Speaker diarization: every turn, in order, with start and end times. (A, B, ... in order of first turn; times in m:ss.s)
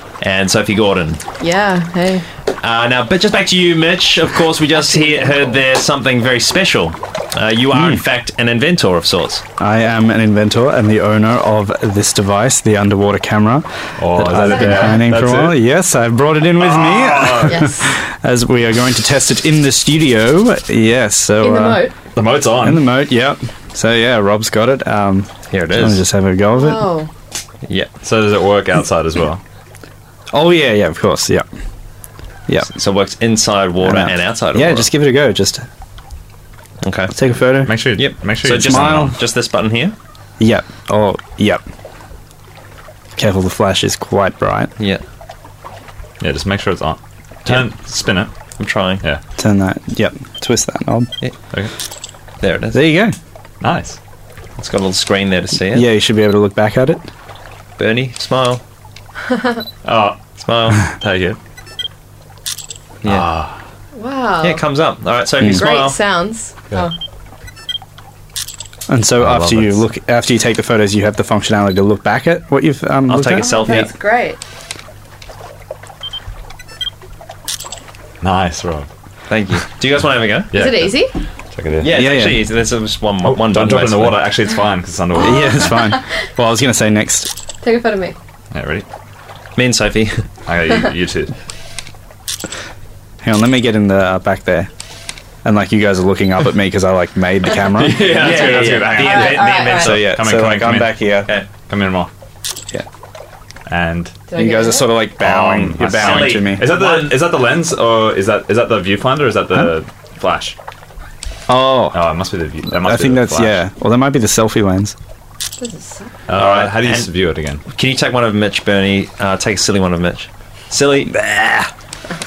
0:00.2-0:01.2 A
0:01.4-0:02.2 B
0:02.6-0:09.4 A
0:04.8-0:05.4 B
0:07.7-0:08.0 C
0:09.6-0:21.8 C
0:14.0-0:15.6 D
0:14.4-0:15.0 B
0:16.6-0:17.6 D
0:17.5-0:17.9 B
0:21.4-0:21.9 B
0:22.2-0:22.8 D
0:22.6-0:26.9 C
0:25.5-0:26.0 A
0:26.6-0:27.1 B
0:28.0-0:29.4 D
0:30.3-0:31.4 C
0:32.7-0:34.9 A
0:33.8-0:35.7 C
0:36.8-0:37.1 A
0:37.1-0:37.8 C
0:37.6-0:39.2 D
0:38.0-0:39.9 A
0:38.5-0:39.2 C
0:40.4-0:41.6 C
0:43.2-0:44.7 C
0:46.2-0:48.3 D
0:48.6-0:49.0 A
0:49.4-0:51.1 C
0:52.4-0:52.9 A
0:52.7-0:53.2 C
0:53.6-0:54.0 D
0:54.6-0:55.9 A
0:55.7-0:57.1 C
0:57.8-0:58.6 A
0:59.8-1:00.2 D
1:00.4-1:00.8 A
1:00.8-1:01.4 D
1:03.0-1:03.6 D
1:04.0-1:04.6 B
1:04.4-1:06.0 A
1:05.5-1:06.9 B
1:08.9-1:13.9 C
1:09.2-1:09.8 D
1:13.1-1:13.9 A
1:13.4-1:14.4 B
1:18.2-1:18.9 D
1:19.3-1:20.5 A
1:20.5-1:21.0 D
1:20.5-1:21.1 B
1:21.5-1:21.9 D
1:21.8-1:24.3 A
1:21.9-1:22.4 C
1:23.2-1:25.8 D
1:25.2-1:27.3 C
1:27.6-1:28.2 B
1:28.5-1:28.9 D
1:29.6-1:30.2 A
1:30.5-1:31.3 D
1:33.2-1:34.7 C
1:35.4-1:38.6 C
1:37.7-1:42.1 D
1:38.0-1:40.2 A
1:39.1-1:39.8 B
1:39.7-1:41.3 C
1:43.7-1:44.2 D
1:44.3-1:44.9 B
1:44.3-1:46.7 C
1:45.2-1:50.6 D
1:46.0-1:47.3 A
1:51.5-1:52.0 C
1:51.9-1:53.6 D
1:52.7-1:55.0 C
1:55.6-1:56.1 B
1:56.3-1:57.6 D
1:56.3-1:57.1 A
1:57.7-2:01.1 A
2:01.1-2:01.7 C